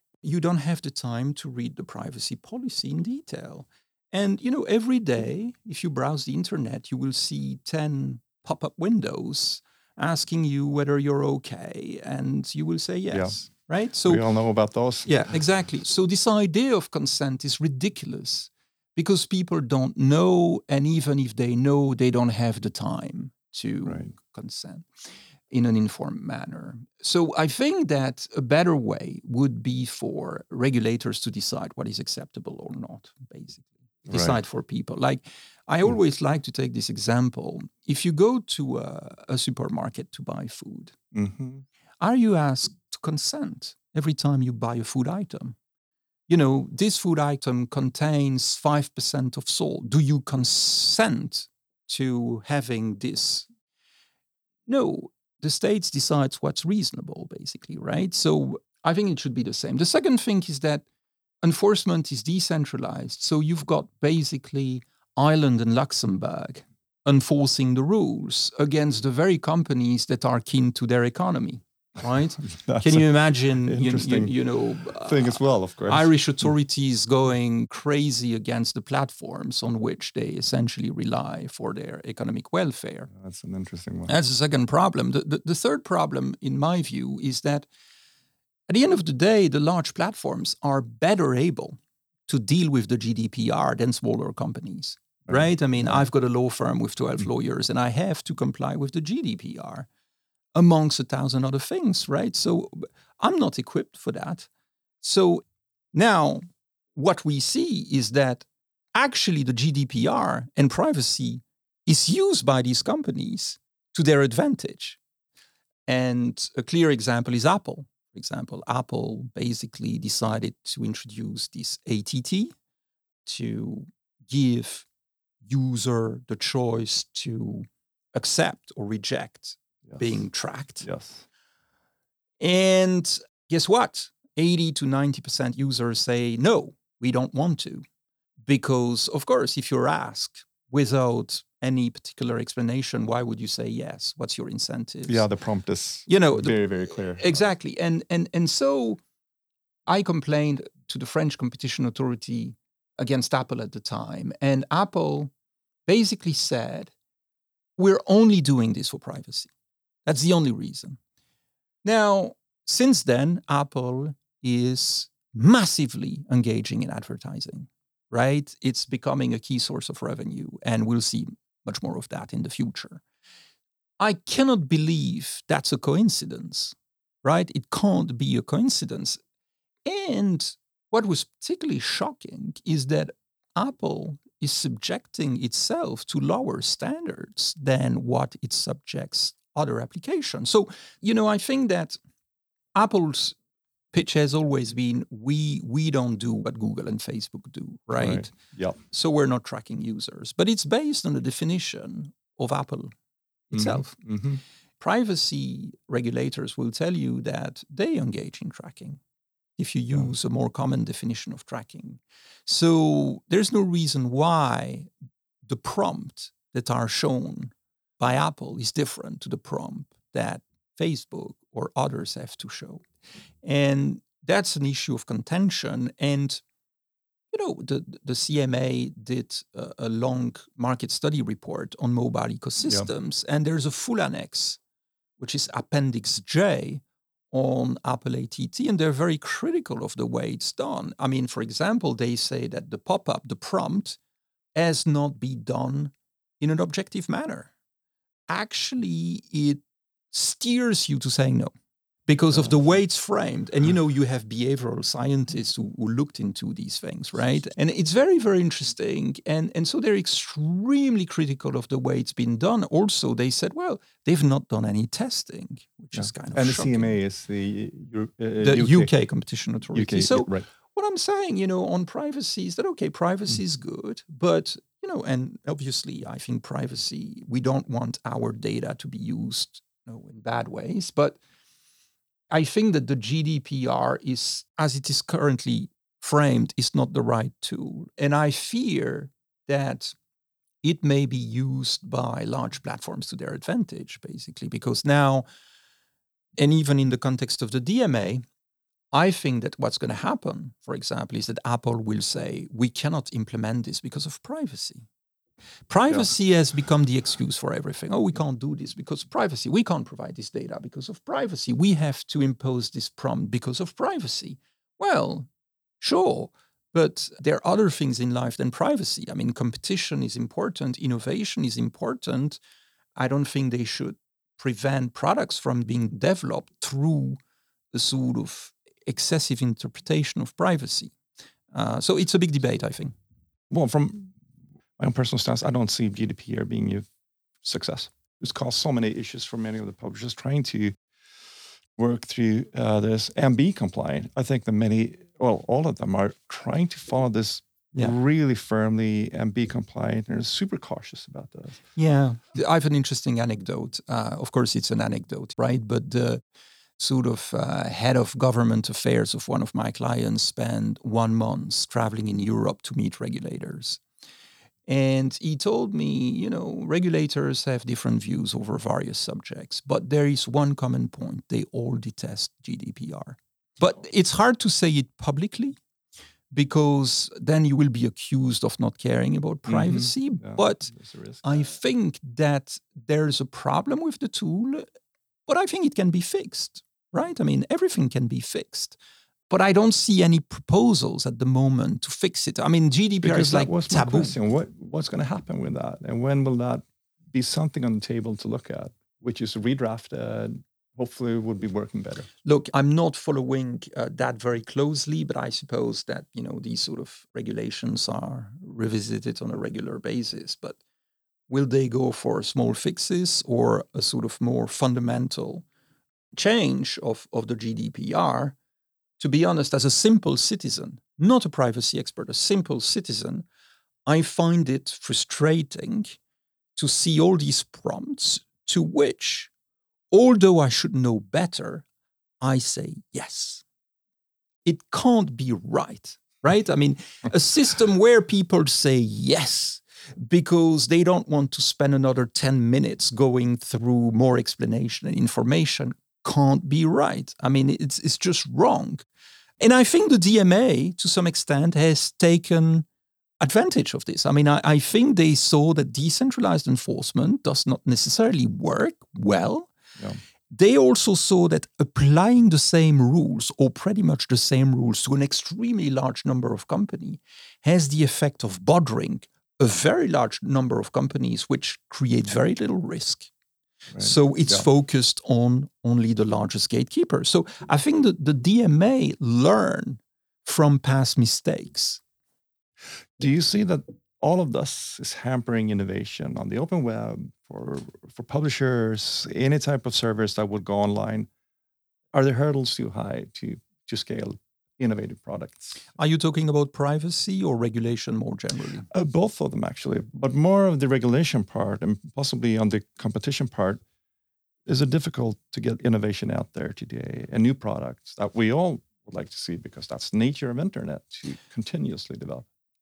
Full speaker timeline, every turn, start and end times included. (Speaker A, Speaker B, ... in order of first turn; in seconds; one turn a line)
Speaker A: 0.2-14.2
Speaker B: 13.1-13.4
Speaker B: 14.1-15.3
Speaker A: 15.1-24.9
Speaker A: 25.5-41.0
Speaker B: 34.1-34.4
Speaker B: 41.1-41.6
Speaker A: 42.0-45.6
Speaker A: 46.3-53.5
Speaker A: 54.7-60.9
Speaker A: 61.4-83.1
Speaker B: 72.4-74.3
Speaker B: 74.9-76.5
Speaker B: 83.1-84.1
Speaker A: 84.1-87.7
Speaker A: 88.7-99.9
Speaker B: 95.3-96.0
Speaker A: 100.5-104.5
Speaker A: 105.0-106.4
Speaker A: 107.0-115.0
Speaker A: 115.9-122.5
Speaker A: 123.2-124.9
Speaker A: 125.4-130.9
Speaker B: 130.8-131.3
Speaker A: 132.4-137.8
Speaker A: 138.4-145.3
Speaker B: 145.1-147.5
Speaker A: 146.1-149.0
Speaker A: 149.9-155.3
Speaker A: 155.9-156.9
Speaker A: 157.8-159.5
Speaker A: 160.1-161.0
Speaker A: 161.8-173.0
Speaker A: 174.0-179.2
Speaker A: 179.9-192.0
Speaker A: 192.8-193.4
Speaker A: 193.9-198.3
Speaker B: 198.0-198.8
Speaker A: 198.9-202.9
Speaker A: 203.5-204.0
Speaker B: 203.5-204.4
Speaker A: 204.8-209.0
Speaker A: 209.6-214.9
Speaker A: 215.4-222.8
Speaker A: 223.4-226.4
Speaker A: 227.3-234.6
Speaker A: 235.2-244.0
Speaker A: 244.6-247.5
Speaker A: 248.3-251.5
Speaker A: 252.1-266.9
Speaker B: 265.9-268.9
Speaker A: 268.4-281.2
Speaker B: 269.7-270.5
Speaker A: 282.3-289.9
Speaker A: 290.6-295.2
Speaker A: 296.4-298.2
Speaker A: 298.9-304.9
Speaker A: 305.7-315.3
Speaker A: 315.8-322.4
Speaker A: 323.0-327.2
Speaker A: 327.7-331.0
Speaker A: 331.5-332.9
Speaker B: 333.5-334.1
Speaker B: 334.8-336.9
Speaker B: 337.4-340.8
Speaker B: 341.8-351.6
Speaker A: 351.8-356.2
Speaker A: 356.8-363.8
Speaker A: 364.7-375.6
Speaker A: 376.3-384.7
Speaker B: 379.5-381.5
Speaker A: 385.3-388.8
Speaker A: 389.3-394.1
Speaker B: 393.0-402.1
Speaker A: 402.2-410.6
Speaker A: 411.3-415.5
Speaker A: 416.1-418.4
Speaker A: 419.0-423.2
Speaker A: 423.9-426.0
Speaker A: 426.6-429.3
Speaker A: 429.9-431.6
Speaker A: 432.2-433.4
Speaker A: 434.4-448.9
Speaker A: 449.4-452.7
Speaker A: 453.2-459.5
Speaker A: 460.3-473.1
Speaker B: 473.7-474.5
Speaker A: 473.8-481.8
Speaker B: 483.0-491.1
Speaker B: 491.9-495.6
Speaker A: 495.8-498.7
Speaker B: 498.7-503.6
Speaker B: 504.5-512.3